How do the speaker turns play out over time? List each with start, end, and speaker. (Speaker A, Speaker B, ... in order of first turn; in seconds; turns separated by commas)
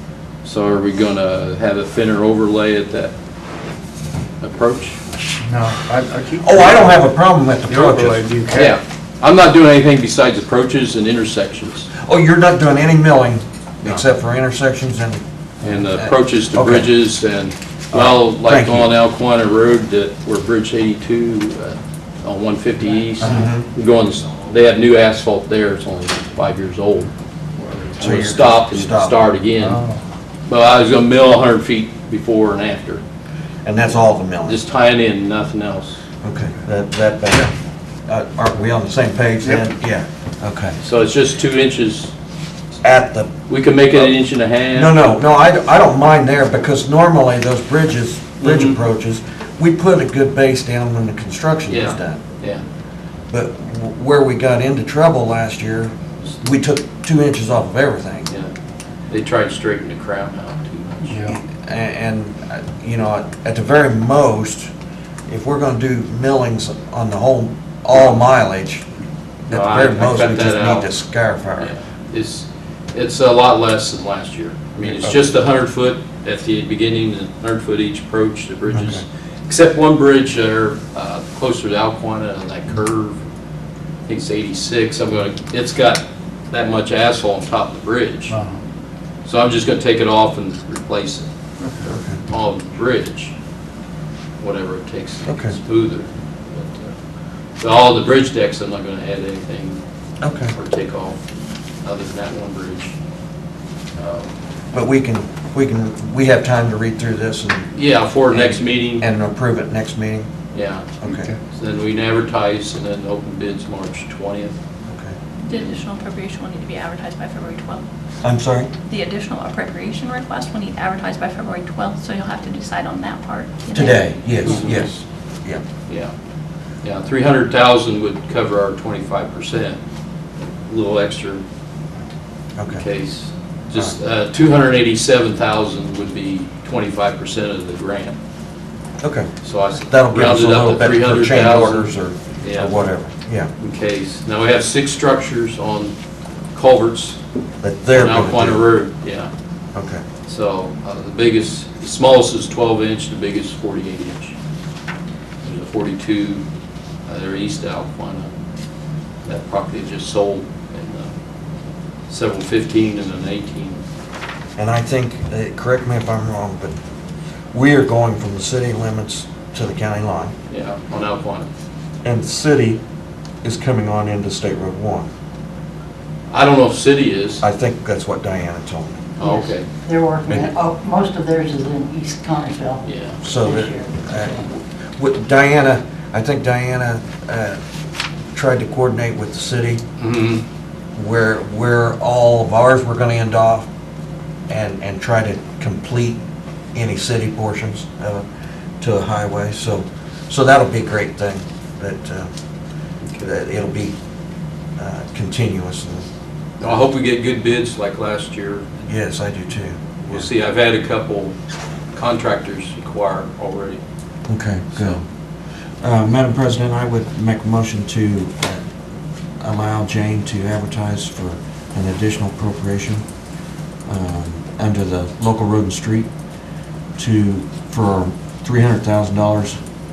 Speaker A: 0.4-3.1, Speaker A: 4.4-5.0, Speaker B: 5.4-6.9, Speaker C: 6.4-8.4, Speaker B: 7.7-8.8, Speaker A: 8.5-11.9, Speaker C: 12.0-17.0, Speaker A: 15.6-27.1, Speaker C: 17.9-18.9, Speaker C: 23.2-23.7, Speaker A: 28.0-29.8, Speaker C: 28.0-29.2, Speaker B: 29.6-30.0, Speaker A: 30.5-33.0, Speaker C: 33.6-34.6, Speaker A: 34.5-36.0, Speaker C: 36.2-37.5, Speaker C: 38.1-40.8, Speaker A: 40.8-42.1, Speaker C: 42.8-43.3, Speaker A: 43.5-45.2, Speaker C: 44.7-52.2, Speaker A: 48.4-48.8, Speaker A: 51.7-52.6, Speaker C: 53.3-58.3, Speaker A: 59.1-61.2, Speaker B: 61.1-61.4, Speaker C: 61.3-64.7, Speaker C: 65.3-68.8, Speaker C: 69.5-71.7, Speaker A: 69.5-70.9, Speaker A: 71.6-83.2, Speaker C: 74.8-75.2, Speaker C: 78.7-79.0, Speaker A: 84.1-88.4, Speaker B: 88.3-88.6, Speaker A: 89.2-91.3, Speaker C: 91.8-92.2, Speaker A: 92.3-93.3, Speaker A: 94.4-97.0, Speaker C: 95.3-95.6, Speaker A: 97.6-99.8, Speaker C: 100.2-100.5, Speaker A: 100.5-101.2, Speaker A: 101.8-103.0, Speaker A: 104.0-104.3, Speaker C: 104.7-107.7, Speaker A: 107.7-109.1, Speaker C: 108.3-110.3, Speaker A: 110.5-110.9, Speaker C: 111.0-111.3, Speaker B: 111.1-111.4, Speaker A: 111.5-114.5, Speaker C: 114.9-115.2, Speaker D: 115.4-117.8, Speaker A: 115.5-115.8, Speaker C: 118.2-118.7, Speaker D: 118.9-124.5, Speaker C: 123.7-125.6, Speaker A: 124.5-124.9, Speaker A: 125.9-126.1, Speaker A: 126.8-129.8, Speaker A: 130.7-131.4, Speaker C: 132.6-132.8, Speaker A: 132.7-138.2, Speaker C: 139.0-139.3, Speaker A: 139.4-142.8, Speaker C: 139.8-143.5, Speaker A: 143.6-145.9, Speaker A: 146.5-147.2, Speaker C: 147.6-148.6, Speaker A: 147.9-149.3, Speaker C: 149.8-150.0, Speaker A: 150.3-154.3, Speaker A: 155.4-156.4, Speaker A: 157.1-158.3, Speaker A: 159.2-161.1, Speaker A: 162.1-163.8, Speaker C: 164.6-166.8, Speaker C: 167.5-170.3, Speaker A: 170.5-171.5, Speaker C: 172.0-172.8, Speaker C: 173.4-175.1, Speaker A: 176.3-177.4, Speaker C: 177.4-179.1, Speaker A: 179.2-179.7, Speaker E: 179.2-184.4, Speaker A: 182.8-183.2, Speaker C: 183.2-187.6, Speaker C: 188.3-189.8, Speaker A: 190.0-190.4, Speaker C: 191.0-193.7, Speaker C: 194.5-196.2, Speaker C: 196.8-198.2, Speaker C: 198.8-202.3, Speaker C: 203.2-203.9, Speaker C: 204.8-206.1, Speaker A: 206.6-208.7, Speaker C: 208.9-210.3, Speaker A: 210.1-211.4, Speaker A: 211.9-213.8, Speaker C: 214.3-215.0, Speaker A: 214.7-215.0, Speaker C: 215.8-218.6, Speaker C: 219.4-223.0, Speaker C: 223.9-226.1, Speaker C: 227.0-229.6